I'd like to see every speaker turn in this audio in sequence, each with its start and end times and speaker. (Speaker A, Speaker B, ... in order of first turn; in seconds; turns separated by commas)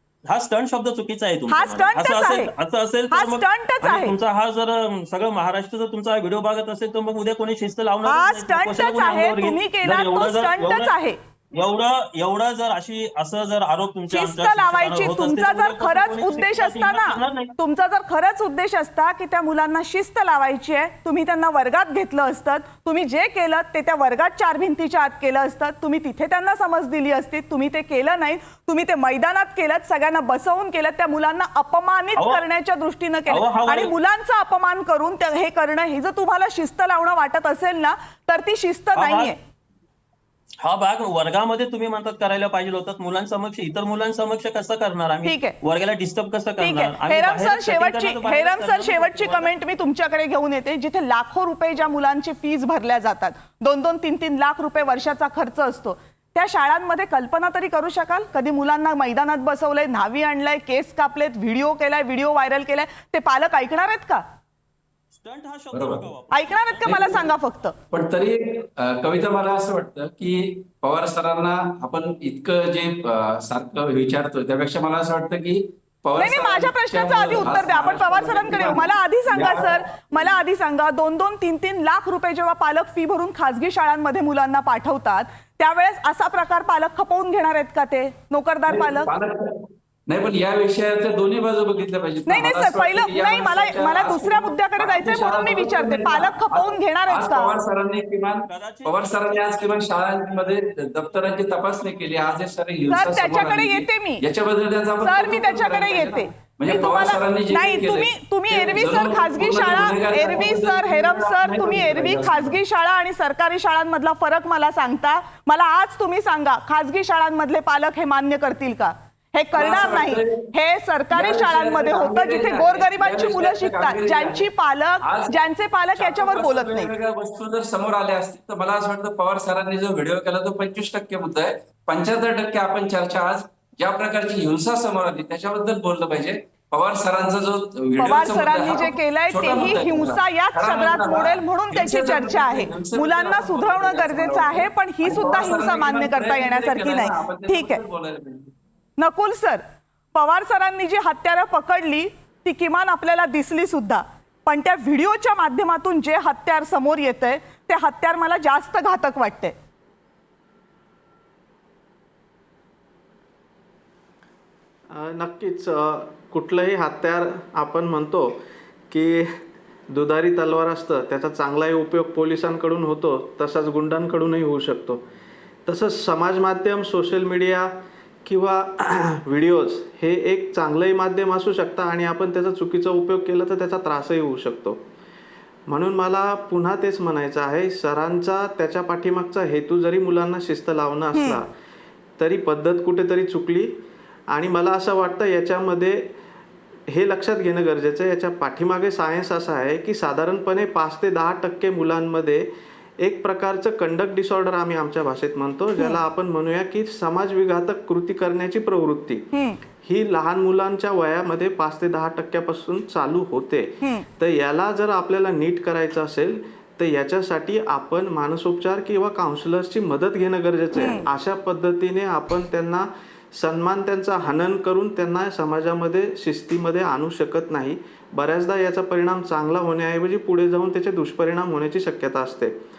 Speaker A: 0.3-10.9, Speaker B: 1.5-2.5, Speaker B: 3.1-4.1, Speaker B: 8.1-11.2, Speaker A: 11.5-17.5, Speaker B: 14.1-39.4, Speaker A: 32.1-32.4, Speaker A: 33.3-33.9, Speaker A: 38.9-39.3, Speaker A: 40.6-49.5, Speaker B: 45.2-45.5, Speaker B: 46.6-64.2, Speaker A: 65.1-67.2, Speaker C: 65.7-66.1, Speaker B: 66.3-67.7, Speaker C: 66.8-67.2, Speaker C: 67.9-80.2, Speaker B: 76.2-89.1, Speaker C: 88.7-112.6, Speaker B: 92.3-97.6, Speaker A: 98.5-99.5, Speaker B: 102.9-104.2, Speaker B: 105.0-126.9, Speaker C: 119.5-120.5, Speaker C: 121.1-124.5, Speaker C: 125.0-125.4, Speaker C: 126.0-148.5, Speaker B: 138.0-147.8, Speaker B: 149.0-149.6, Speaker B: 150.1-159.6, Speaker D: 164.9-168.4, Speaker D: 168.9-169.3, Speaker D: 169.9-175.0, Speaker D: 175.7-184.8, Speaker D: 185.7-191.5, Speaker B: 191.1-191.4, Speaker D: 192.2-193.8, Speaker D: 194.3-196.1, Speaker D: 196.9-209.3, Speaker B: 209.3-209.6, Speaker D: 209.8-232.5, Speaker B: 220.8-221.0